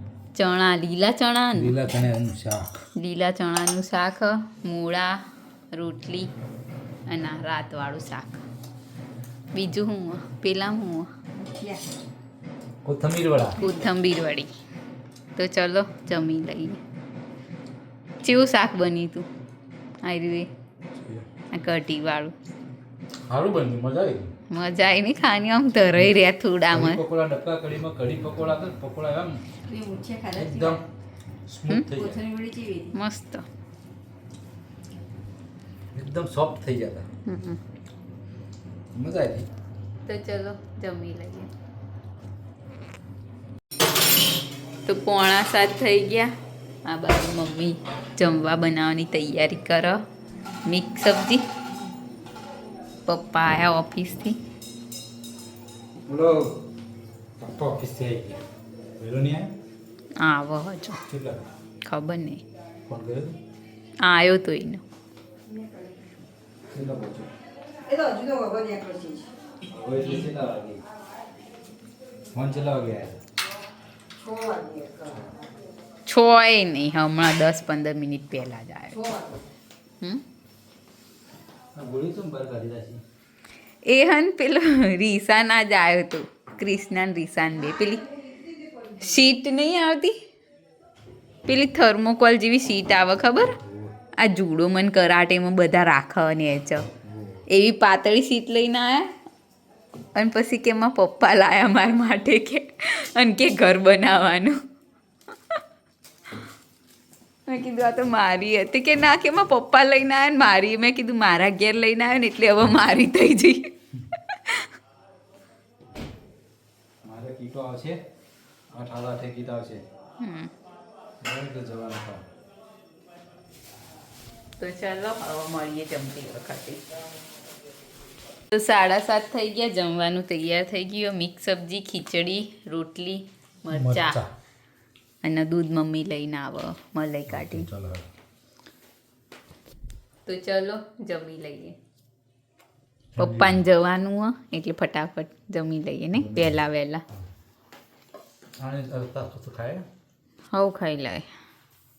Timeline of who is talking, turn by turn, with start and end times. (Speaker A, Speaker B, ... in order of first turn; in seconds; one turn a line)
Speaker A: 0.3-1.8
Speaker B: 1.5-2.7
Speaker A: 3.0-5.2
Speaker A: 5.7-6.3
Speaker A: 7.1-8.4
Speaker A: 9.5-11.1
Speaker C: 11.3-11.8
Speaker B: 12.8-13.6
Speaker A: 13.6-14.5
Speaker A: 15.4-16.8
Speaker A: 18.2-19.3
Speaker A: 20.0-20.5
Speaker B: 20.9-21.3
Speaker A: 21.5-22.3
Speaker B: 23.3-24.3
Speaker A: 24.5-27.0
Speaker B: 26.7-29.4
Speaker C: 29.7-30.8
Speaker B: 30.3-30.8
Speaker B: 31.5-32.2
Speaker C: 31.9-32.9
Speaker A: 32.9-33.5
Speaker B: 36.0-37.1
Speaker A: 37.2-37.6
Speaker B: 38.9-39.5
Speaker A: 40.1-41.5
Speaker A: 44.9-46.3
Speaker A: 46.9-50.0
Speaker A: 50.6-51.4
Speaker A: 53.1-54.4
Speaker B: 56.1-56.6
Speaker B: 57.4-58.4
Speaker B: 59.0-59.5
Speaker A: 60.2-61.0
Speaker B: 61.1-61.5
Speaker A: 61.8-62.4
Speaker B: 62.9-63.4
Speaker A: 64.0-64.8
Speaker C: 65.5-65.9
Speaker B: 66.7-67.3
Speaker C: 67.9-69.3
Speaker B: 69.7-70.8
Speaker B: 72.3-73.2
Speaker C: 74.2-75.5
Speaker A: 76.1-79.1
Speaker C: 79.0-79.4
Speaker B: 81.8-83.0
Speaker A: 83.8-88.1
Speaker A: 88.8-90.2
Speaker A: 91.5-93.6
Speaker B: 93.6-93.9
Speaker A: 94.2-96.8
Speaker B: 97.0-97.4
Speaker A: 97.5-99.1
Speaker A: 100.2-104.6
Speaker A: 107.5-113.7
Speaker A: 114.3-114.7
Speaker B: 117.0-118.0
Speaker B: 118.7-119.8
Speaker A: 120.2-120.5
Speaker B: 121.2-122.2
Speaker A: 124.6-126.8
Speaker A: 128.5-134.2
Speaker B: 133.7-134.3
Speaker A: 135.2-137.7
Speaker B: 137.3-138.1
Speaker A: 140.3-141.8
Speaker B: 143.2-143.6
Speaker A: 143.2-147.0
Speaker B: 146.1-146.6
Speaker B: 148.6-149.9
Speaker A: 150.5-151.3